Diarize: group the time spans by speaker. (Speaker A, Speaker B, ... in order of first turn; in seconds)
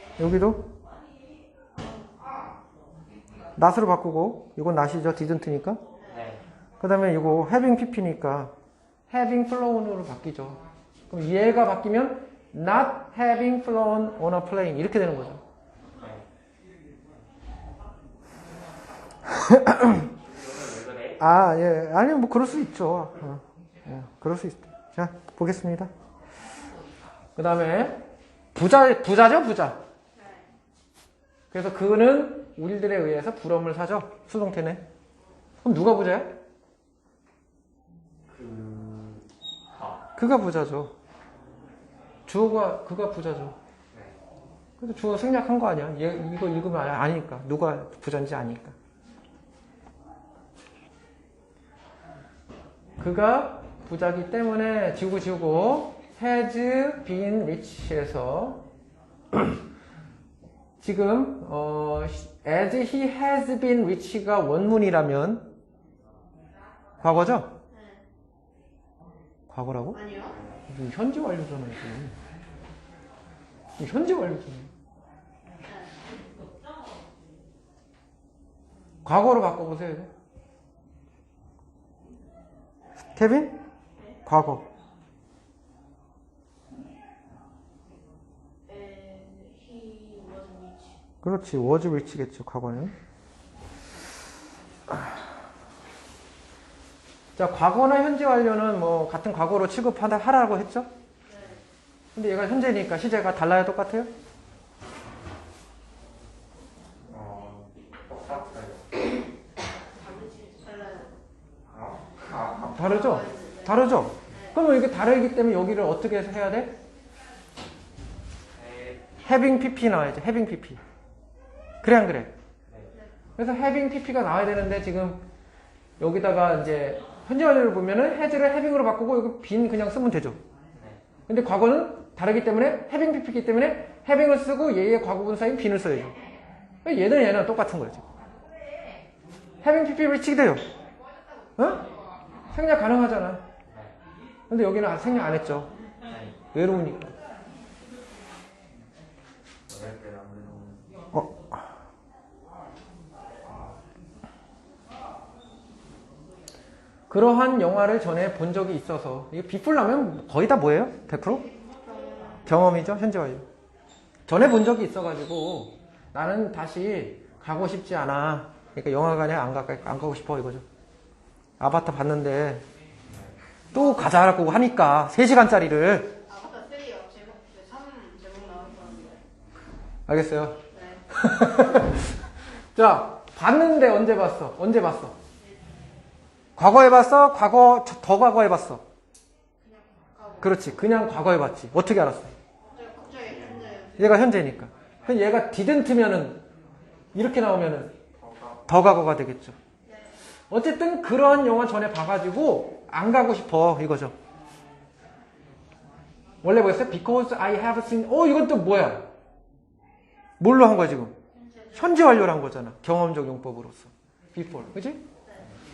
Speaker A: 0.2-0.7, 3.6-5.8, 6.8-8.5, 9.1-15.4, 19.3-20.1, 21.2-25.9, 27.4-29.8, 31.5-34.8, 35.6-36.4, 40.2-40.9, 42.3-43.6, 44.8-48.8, 53.0-58.6, 60.8-65.5, 67.0-67.5, 69.5-70.0, 70.7-72.2, 73.8-74.7, 79.0-80.1, 83.2-83.6, 84.2-84.7, 91.2-92.9, 97.4-100.9, 102.2-104.1, 112.8-116.8, 119.2-120.8, 121.8-122.3, 123.4-125.2, 126.0-130.4, 131.3-136.1, 136.8-138.1, 139.6-140.7, 141.6-141.8, 142.5-143.4, 144.5-145.7, 146.5-147.2, 151.1-151.6, 157.1-161.4, 162.4-163.5, 164.3-170.6, 171.6-172.6, 173.7-176.1, 180.1-182.2, 182.8-185.2, 186.6-188.8, 190.4-192.3, 194.0-196.4, 197.1-198.0, 198.7-199.6, 200.5-204.2, 206.4-209.1, 210.4-211.2, 211.7-215.1
Speaker B: 6.0-6.3, 30.1-30.5, 67.7-68.0, 69.9-70.4, 75.6-76.0, 88.7-91.0, 101.3-101.6, 110.0-111.2, 112.8-114.6, 161.4-162.4, 173.7-174.1, 176.1-179.2, 180.7-181.1, 189.6-190.7, 192.7-194.0, 199.8-200.1, 211.3-212.1
Speaker C: 6.0-6.4, 16.0-16.2, 20.1-21.2, 38.3-40.0, 43.9-44.2, 107.1-109.1, 111.7-112.9, 118.5-119.1, 130.7-131.0, 143.7-144.0, 146.1-146.4, 149.7-150.9, 173.1-173.4, 193.3-193.8, 198.2-198.6